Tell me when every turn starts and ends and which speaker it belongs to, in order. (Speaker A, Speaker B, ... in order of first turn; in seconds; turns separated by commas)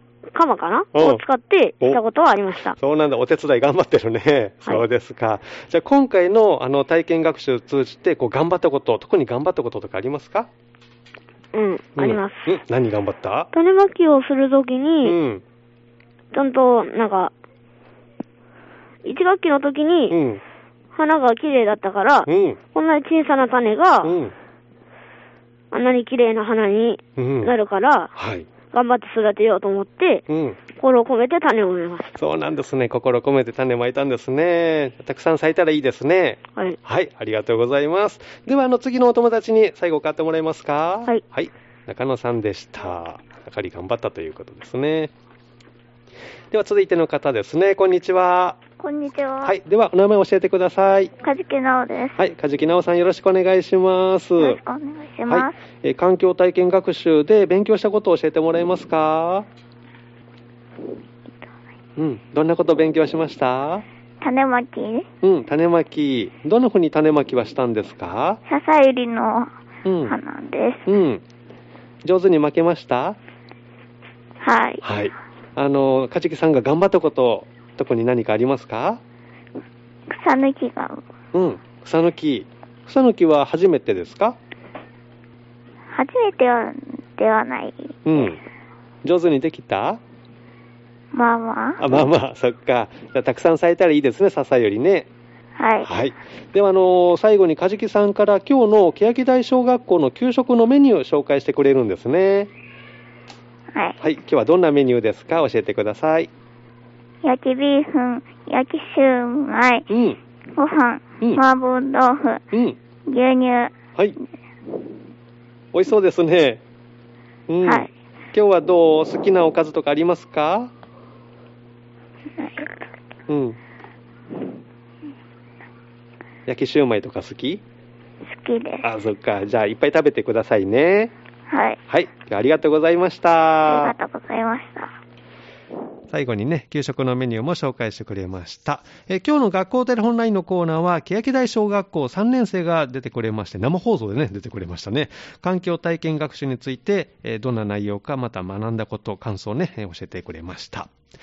Speaker A: 0.3-2.8, Speaker B: 0.9-1.2, Speaker B: 2.8-10.5, Speaker A: 11.5-12.6, Speaker B: 12.0-13.5, Speaker A: 13.5-15.2, Speaker B: 15.1-15.4, Speaker A: 16.3-17.3, Speaker A: 19.1-20.2, Speaker B: 20.1-20.4, Speaker A: 20.9-24.2, Speaker B: 22.3-22.6, Speaker B: 24.0-24.3, Speaker A: 25.7-28.1, Speaker B: 27.2-27.5, Speaker B: 28.1-28.5, Speaker A: 28.7-30.2, Speaker B: 30.3-30.6, Speaker A: 30.8-32.1, Speaker B: 32.1-45.1, Speaker B: 46.5-48.6, Speaker C: 48.8-49.5, Speaker B: 49.4-51.1, Speaker C: 51.2-52.2, Speaker B: 52.2-54.6, Speaker C: 54.4-55.6, Speaker B: 55.3-59.5, Speaker B: 62.0-63.9, Speaker C: 64.2-65.1, Speaker B: 65.2-68.4, Speaker C: 68.5-69.5, Speaker B: 69.8-70.2, Speaker C: 70.0-70.8, Speaker B: 70.9-71.2, Speaker B: 72.0-73.2, Speaker C: 74.4-74.8, Speaker B: 74.8-79.0, Speaker C: 80.1-81.0, Speaker B: 81.3-84.4, Speaker C: 85.9-88.3, Speaker B: 88.1-88.4, Speaker B: 89.0-90.0, Speaker C: 91.1-91.9, Speaker B: 91.8-95.1, Speaker C: 95.6-95.9, Speaker B: 95.8-102.5, Speaker B: 104.0-106.3, Speaker C: 107.2-109.9, Speaker B: 109.9-110.2, Speaker C: 110.5-112.4, Speaker B: 112.5-112.8, Speaker C: 113.1-113.7, Speaker B: 115.7-116.6, Speaker B: 117.5-120.7, Speaker C: 117.6-117.9, Speaker C: 122.4-122.7, Speaker B: 123.3-123.6, Speaker B: 126.5-127.6, Speaker C: 128.3-128.9, Speaker B: 128.8-131.1, Speaker C: 131.5-131.8, Speaker B: 131.9-133.9, Speaker C: 133.7-135.0, Speaker B: 136.1-150.9